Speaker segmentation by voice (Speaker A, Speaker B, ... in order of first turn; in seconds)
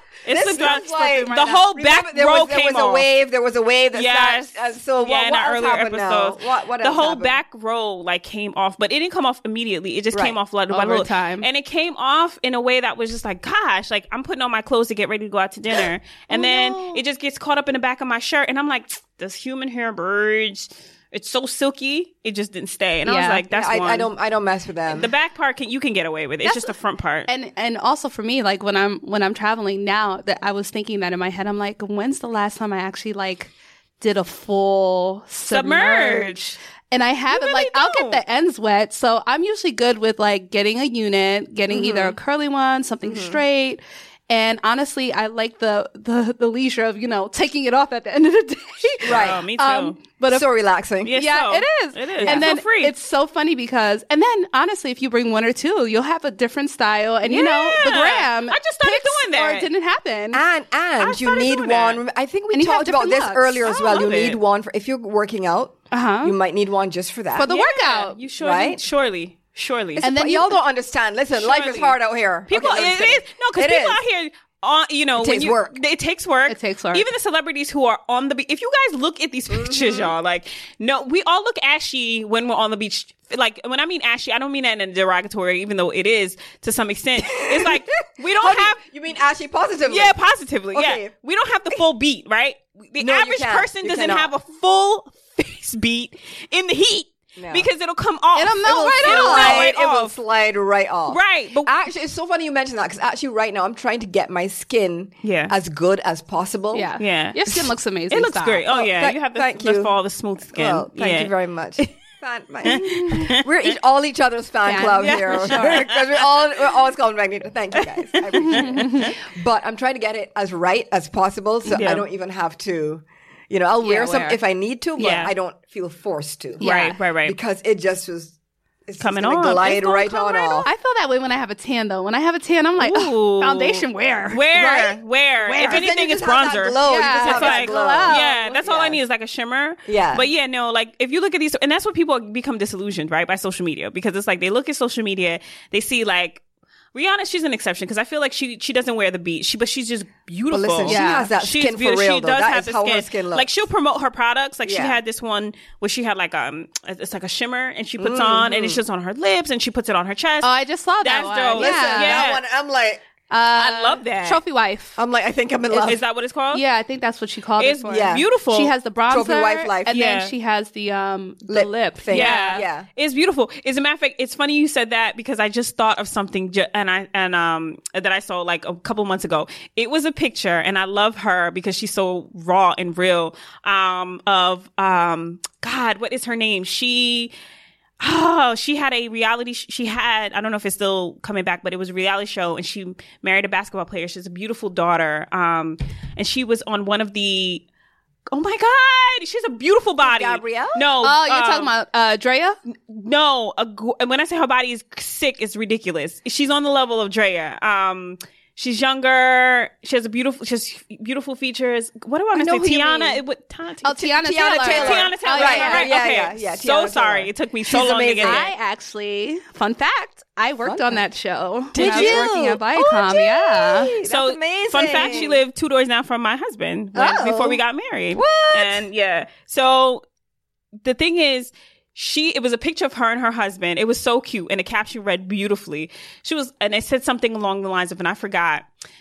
Speaker A: 0.2-3.1, 3.9-24.1, 24.9-27.3, 35.5-36.5, 37.3-38.2, 49.0-50.0, 51.0-52.9, 57.2-59.7, 61.0-62.0, 63.6-64.4, 67.5-70.0, 71.3-72.0, 72.5-88.8, 89.9-100.2, 101.1-101.7, 105.2-105.5, 107.0-111.9, 112.6-113.5, 115.0-116.4, 117.7-119.2, 121.7-122.0, 125.0-125.3, 126.6-127.4, 129.0-130.6, 132.8-146.4, 146.9-162.4, 163.6-164.4, 165.8-166.6, 167.6-168.7, 169.9-170.3, 172.1-187.3, 188.0-197.6, 198.3-201.7, 202.9-214.0, 214.6-218.5, 221.8-222.3, 224.0-230.0, 230.8-238.7
Speaker B: 0.3-7.4, 16.3-17.0, 23.5-25.1, 41.8-42.1, 43.0-43.4, 49.0-49.4, 50.3-51.2, 52.2-52.5, 60.3-67.5, 68.4-68.8, 70.0-74.0, 75.2-75.8, 79.5-80.1, 87.2-90.2, 90.7-91.1, 93.0-94.3, 97.4-97.7, 98.6-106.9, 108.7-109.9, 110.5-126.7, 127.2-128.3, 128.9-130.7, 134.5-135.0, 135.6-139.0, 139.9-140.2, 150.5-153.5, 154.7-155.0, 158.0-158.8, 161.6-163.0, 165.0-166.0, 167.9-168.3, 169.1-169.9, 171.5-172.9, 200.0-200.9, 212.3-213.2, 214.0-218.5, 220.6-221.0, 221.7-225.4, 226.9-227.6, 228.1-228.8
Speaker C: 0.6-1.6, 10.7-11.5, 23.1-23.4, 26.4-26.7, 27.3-50.5, 51.1-60.4, 62.5-63.7, 65.9-66.3, 67.3-68.2, 70.0-70.6, 76.5-77.0, 98.3-99.7, 106.7-108.6, 114.7-115.8, 118.4-119.1, 123.8-124.4, 126.6-127.0, 130.1-134.4, 135.4-135.8, 136.8-138.6, 150.8-151.3, 160.4-162.2, 163.3-165.0, 166.5-172.6, 201.0-202.6, 213.8-215.9, 218.2-224.0, 224.9-225.3